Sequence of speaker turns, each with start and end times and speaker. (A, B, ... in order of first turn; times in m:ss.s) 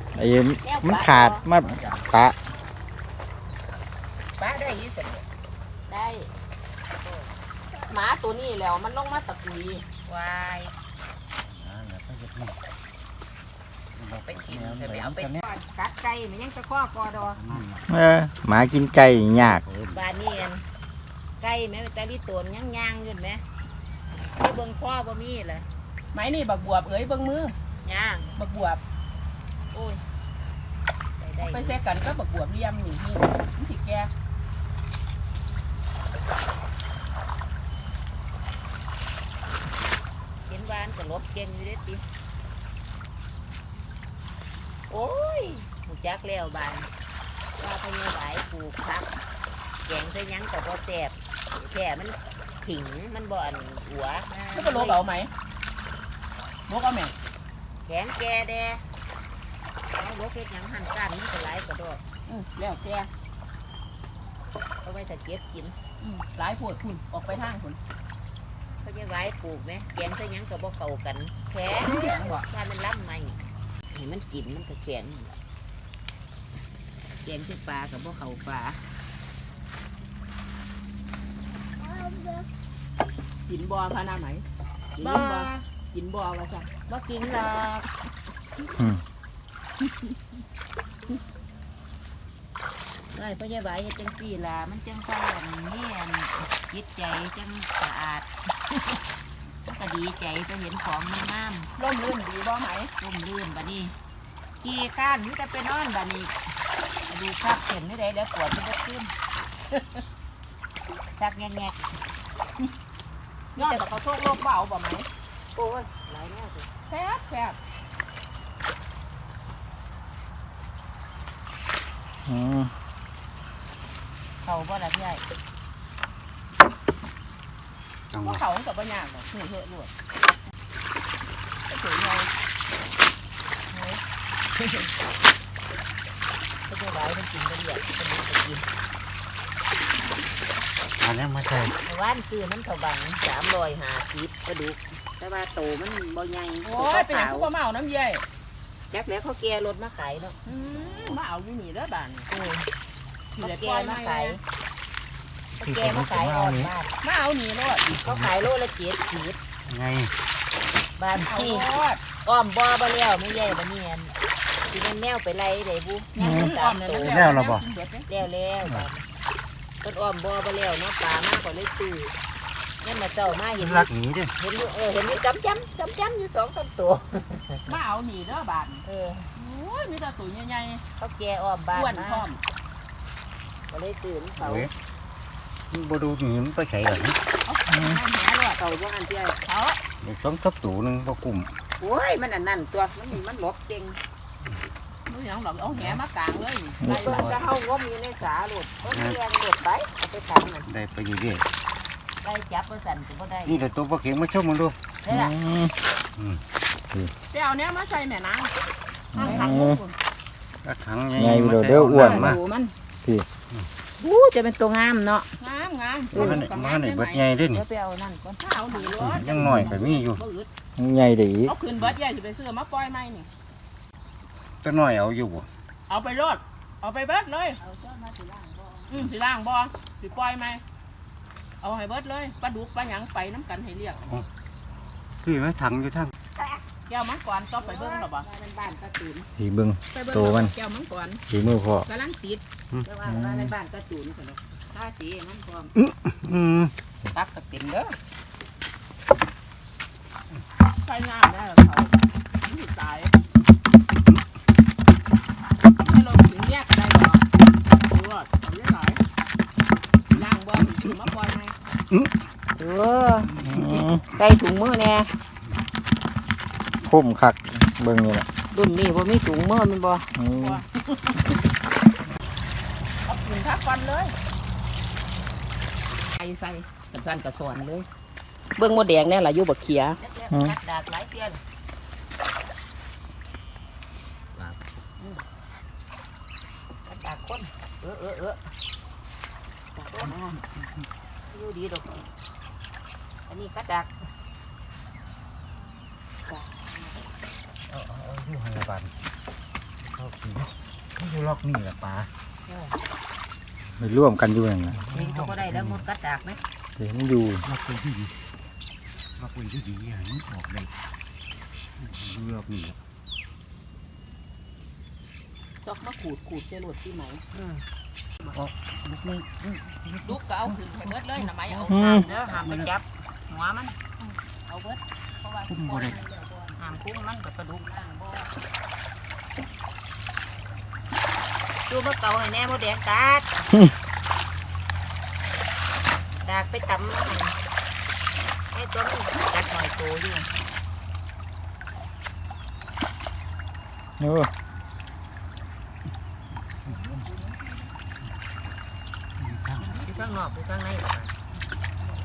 0:00.1-0:02.4 A
0:00.6-0:01.4 B
0:01.6-0:02.1 C
0:04.4-0:05.2 D
0:05.9-0:06.3 B
0:07.0-0:07.3 D
0:07.9-0:09.8 B
0:10.0-0:10.7 D
0:11.4-0:12.6 C
0:13.9-0:15.4 C
0:14.2-0:17.4 D
0:17.2-0:18.0 C
0:17.9-0:19.6 A
0:18.6-0:20.0 C
0:19.9-0:20.6 D
0:21.4-0:23.4 D
0:24.3-0:25.6 D
0:26.1-0:27.5 B
0:27.8-0:28.3 D
0:28.4-0:28.8 B
0:29.7-0:30.0 D
0:31.2-0:31.8 D
0:31.4-0:34.1 B
0:40.5-0:42.0 D
0:44.9-0:46.9 D
0:47.6-0:49.1 D
0:49.9-0:55.0 D
0:54.5-0:55.3 B
0:56.7-0:57.1 B
0:57.9-0:58.8 D
0:59.9-1:02.0 D
1:02.3-1:03.1 B
1:04.8-1:05.8 D
1:06.0-1:07.8 B
1:08.8-1:13.4 D
1:11.8-1:12.4 B
1:13.9-1:15.3 D
1:17.2-1:18.8 D
1:21.8-1:22.4 D
1:23.5-1:24.4 B
1:25.0-1:26.7 B
1:25.0-1:25.6 D
1:26.9-1:27.9 D
1:33.1-1:39.0 D
1:39.6-1:41.7 D
1:41.8-1:42.9 B
1:43.0-1:43.9 D
1:44.6-1:46.3 D
1:47.1-1:49.1 D
1:49.7-1:50.0 B
1:51.2-1:51.8 D
1:53.6-1:53.9 D
1:53.6-1:55.1 B
1:55.5-1:56.7 D
1:56.9-1:57.6 B
2:02.2-2:02.7 A
2:04.4-2:05.2 D
2:08.1-2:08.4 C
2:08.2-2:09.9 B
2:11.7-2:12.3 B
2:13.7-2:14.0 D
2:14.6-2:14.9 D
2:16.7-2:18.6 D
2:21.0-2:21.8 C
2:21.8-2:27.5 D
2:26.6-2:28.2 B
2:28.9-2:30.4 D
2:30.4-2:32.3 B
2:30.8-2:31.2 C
2:32.3-2:32.7 D
2:33.4-2:34.4 B
2:33.4-2:34.4 D
2:35.6-2:36.9 D
2:35.6-2:36.7 C
2:37.0-2:37.9 B
2:37.9-2:38.5 C
2:37.9-2:39.4 D
2:39.6-2:40.1 C
2:41.0-2:41.7 D
2:41.1-2:42.0 B
2:42.2-2:44.1 D
2:44.7-2:47.3 D
2:46.1-2:48.1 B
2:46.2-2:46.5 A
2:47.1-2:47.6 C
2:48.1-2:49.0 D
2:48.6-2:48.9 C
2:49.8-2:52.1 D
2:52.8-2:57.8 D
2:53.6-2:54.3 C
2:57.6-2:58.8 B
2:58.8-2:59.3 D
2:59.3-3:00.8 B
3:01.0-3:02.2 D
3:01.7-3:02.4 B
3:03.7-3:04.7 D
3:04.4-3:04.7 C
3:05.7-3:07.2 C
3:07.4-3:08.6 B
3:07.7-3:08.0 A
3:08.6-3:09.4 D
3:09.4-3:09.8 B
3:10.0-3:11.5 C
3:11.8-3:14.0 D
3:15.1-3:17.3 B
3:15.6-3:16.0 C
3:16.8-3:17.2 A
3:16.8-3:20.7 D
3:17.0-3:17.4 C
3:18.9-3:19.2 C
3:20.7-3:21.4 C
3:22.2-3:23.6 D
3:23.4-3:24.8 C
3:25.0-3:25.3 D
3:25.1-3:25.7 A
3:26.2-3:26.4 C
3:27.3-3:28.6 B
3:29.1-3:29.8 A
3:29.2-3:29.9 B
3:29.2-3:29.7 D
3:30.6-3:32.4 C
3:31.2-3:32.4 A
3:31.9-3:32.7 D
3:34.0-3:35.3 D
3:35.4-3:37.2 B
3:36.1-3:37.6 C
3:36.1-3:36.5 D
3:37.5-3:39.8 D
3:38.4-3:40.5 B
3:39.0-3:40.2 C
3:40.8-3:41.5 A
3:41.4-3:43.3 B
3:44.6-3:45.5 C
3:45.9-3:47.6 B
3:47.6-3:48.9 D
3:48.9-3:50.6 B
3:51.6-3:54.0 B
3:54.0-3:54.3 C
3:55.2-3:56.1 C
3:56.4-3:56.6 D
3:56.9-3:58.3 B
3:57.6-3:59.3 D
3:59.4-4:00.5 A
3:59.9-4:01.2 B
4:01.3-4:01.9 A
4:01.9-4:02.4 B
4:02.8-4:05.7 D
4:03.0-4:03.5 A
4:05.8-4:06.7 C
4:07.1-4:07.9 D
4:10.8-4:13.1 B
4:15.8-4:17.2 B
4:17.8-4:19.0 B
4:20.1-4:21.5 B
4:22.6-4:23.3 D
4:23.4-4:23.8 C
4:23.4-4:24.0 A
4:24.1-4:25.1 D
4:26.8-4:28.2 A
4:28.5-4:30.1 D
4:30.2-4:30.6 A
4:30.3-4:31.2 B
4:33.1-4:34.1 B
4:36.2-4:37.8 B
4:38.6-4:40.0 B
4:40.0-4:41.4 D
4:40.3-4:40.6 A
4:46.8-4:48.4 D
4:49.8-4:50.2 B
4:49.9-4:50.3 D
4:50.0-4:50.8 C
4:51.3-4:52.0 D
4:53.3-4:53.9 D
4:56.3-4:56.9 B
4:57.7-4:59.0 C
4:59.8-5:02.1 C
5:02.5-5:02.7 D
5:03.8-5:04.8 A
5:04.7-5:05.8 C
5:04.9-5:06.4 D
5:06.8-5:07.4 A
5:07.4-5:08.1 C
5:09.2-5:10.7 C
5:11.8-5:12.8 C
5:15.6-5:17.2 B
5:17.3-5:17.6 D
5:18.3-5:22.7 C
5:20.0-5:22.4 B
5:21.7-5:22.0 A
5:21.7-5:23.8 D
5:24.0-5:26.6 B
5:25.5-5:26.0 C
5:26.6-5:27.6 D
5:27.6-5:28.3 B
5:31.7-5:33.4 D
5:36.2-5:37.3 D
5:38.5-5:40.3 D
5:44.0-5:44.3 A
5:46.6-5:47.7 B
5:49.2-5:50.1 C
5:49.8-5:51.1 D